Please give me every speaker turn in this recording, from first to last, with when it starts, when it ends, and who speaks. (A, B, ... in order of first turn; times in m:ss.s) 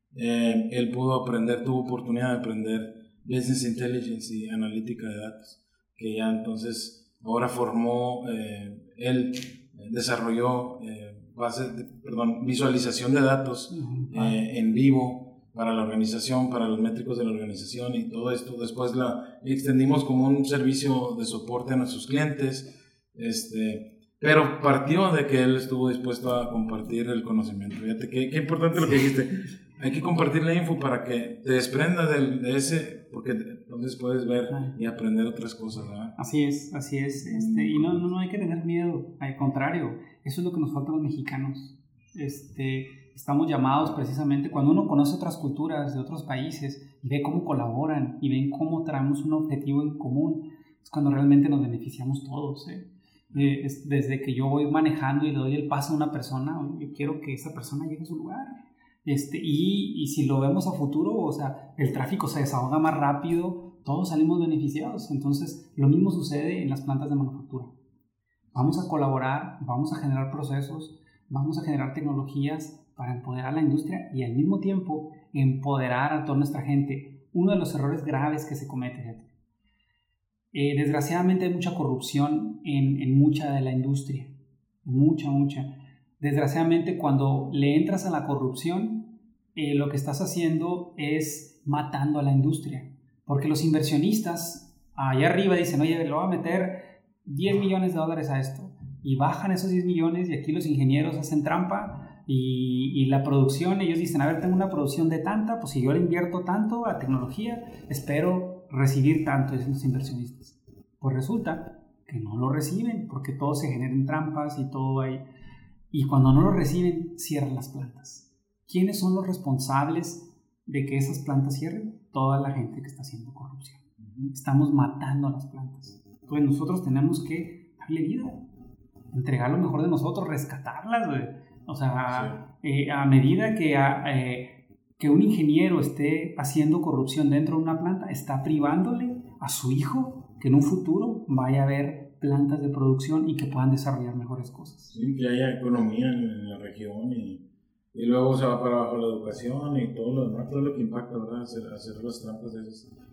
0:00.1-0:36.1 A
0:13.7-0:14.4 B
0:36.2-1:07.7 B
0:37.2-0:38.0 A
1:08.5-1:08.8 A
1:08.5-1:19.3 B
1:20.5-1:24.3 B
1:24.8-1:55.2 B
1:55.9-2:03.8 B
2:04.0-2:04.3 A
2:04.3-2:08.4 B
2:09.1-2:24.9 B
2:12.1-2:12.4 A
2:24.9-2:27.4 A
2:27.9-2:32.9 A